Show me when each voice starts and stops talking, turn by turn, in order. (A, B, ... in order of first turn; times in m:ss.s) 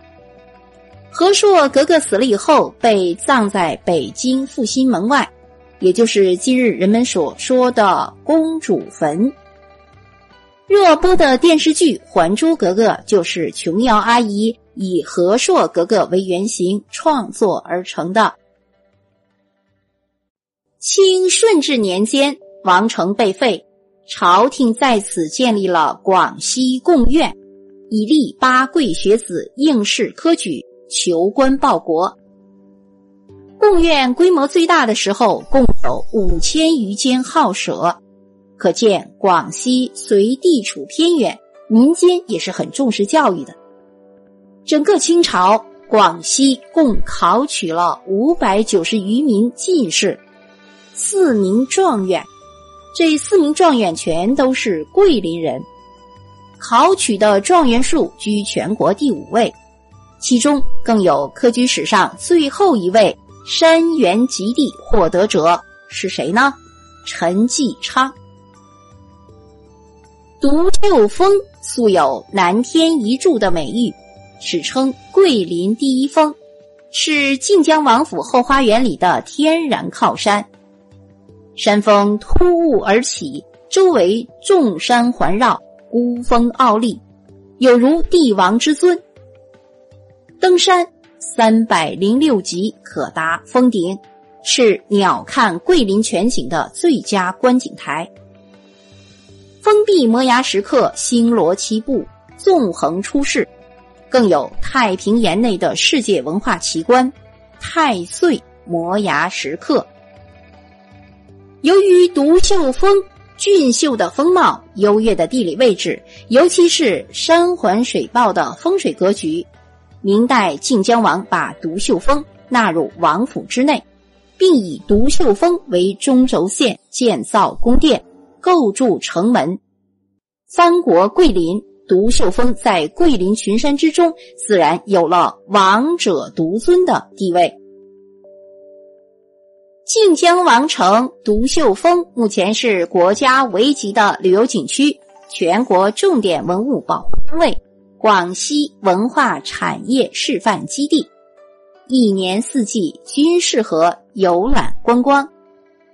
0:01.1-0:09.4 A
0:10.7-0:18.4 A
0:20.8-0:27.4 A
0:27.9-0:32.2 A
0:33.6-0:38.0 A
0:38.6-0:43.6 A
0:44.7-0:50.2 A
0:51.0-0:52.3 A
0:52.9-0:55.7 A
0:56.6-0:59.6 A
1:00.2-1:08.2 A
1:10.4-1:16.4 A
1:16.9-1:20.5 A
1:21.6-1:27.0 A
1:27.6-1:29.0 A
1:30.4-1:38.1 A
1:39.6-1:43.5 A
1:44.1-1:49.9 A
1:51.6-1:59.5 A
2:00.0-2:03.8 A
2:04.4-2:09.6 A
2:10.5-2:17.6 A
2:19.9-2:31.1 A
2:31.9-2:35.3 A